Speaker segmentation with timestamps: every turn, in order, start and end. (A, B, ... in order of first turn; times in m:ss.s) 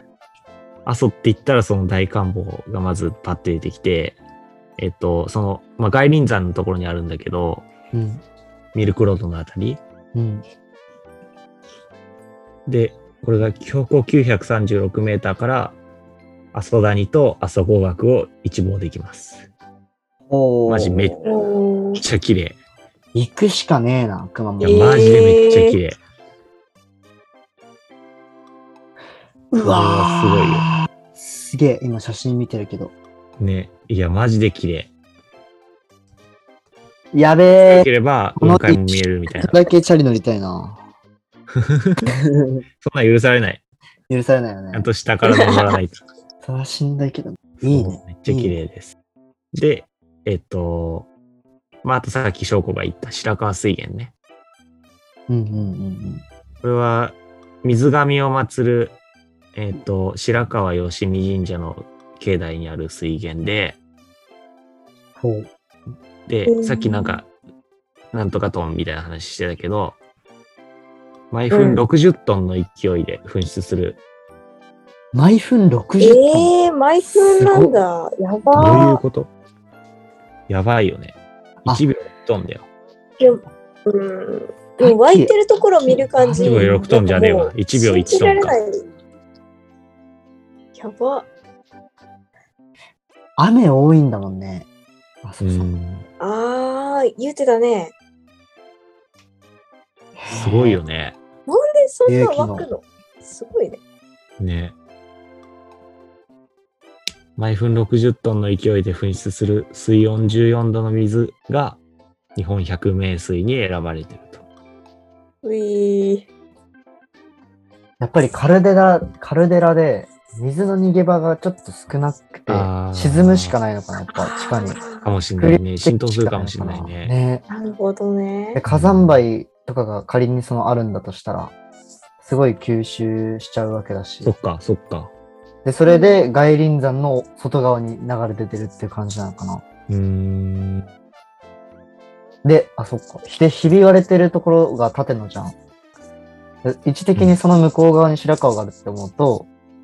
0:00.8-0:04.2 A
0:04.8-0:07.6 A
0:07.9-0:08.2 B
0:08.7-0:09.8 A
0:10.1-0:10.4 B
0:12.6-0:15.8 A
0:16.5-0:19.5 A
0:20.3-0:21.2 B
0:20.7-0:21.2 A
0:21.2-0:22.0 C
0:22.0-0:22.6 A
0:23.1-0:25.1 B
0:24.6-0:26.0 A
0:24.6-0:25.8 C
0:29.5-0:32.9 B
0:29.6-0:30.7 A
0:33.4-0:34.9 A
0:37.1-0:40.8 B
0:37.7-0:39.6 A
0:41.5-0:42.1 A
0:42.1-0:42.6 B
0:42.8-0:43.6 A
0:44.1-0:44.9 B
0:44.7-0:46.0 A
0:45.3-0:45.7 C
0:46.4-0:48.5 B
0:47.6-0:48.9 A
0:49.5-0:51.1 A
0:51.8-0:54.1 A
0:55.3-0:56.2 B
0:56.6-0:58.9 A
0:59.5-1:03.8 A
1:05.2-1:05.5 B
1:06.3-1:07.3 A
1:06.5-1:07.2 C
1:08.1-1:10.0 A
1:11.3-1:14.0 A
1:11.5-1:11.8 C
1:15.1-1:16.5 B
1:16.0-1:19.0 C
1:17.1-1:17.8 B
1:18.5-1:19.3 A
1:20.5-1:22.6 A
1:23.2-1:28.8 C
1:24.8-1:25.3 B
1:25.9-1:26.7 B
1:26.4-1:28.6 A
1:30.8-1:31.3 C
1:33.4-1:34.7 B
1:35.2-1:35.7 B
1:35.4-1:36.0 A
1:36.2-1:37.9 C
1:40.2-1:40.8 B
1:40.3-1:41.1 A
1:41.5-1:43.8 C
1:42.0-1:42.7 B
1:44.4-1:44.7 A
1:47.4-1:51.8 A
1:52.4-1:54.4 A
1:55.4-1:56.3 C
1:58.0-2:04.8 B
2:02.5-2:03.5 A
2:04.1-2:05.0 C
2:05.0-2:07.1 A
2:05.4-2:07.4 B
2:07.5-2:08.6 C
2:08.5-2:11.5 B
2:08.7-2:09.2 A
2:12.2-2:14.3 B
2:14.2-2:15.1 A
2:15.6-2:19.6 B
2:15.8-2:16.2 C
2:19.9-2:20.9 A
2:22.4-2:25.6 B
2:26.6-2:29.5 B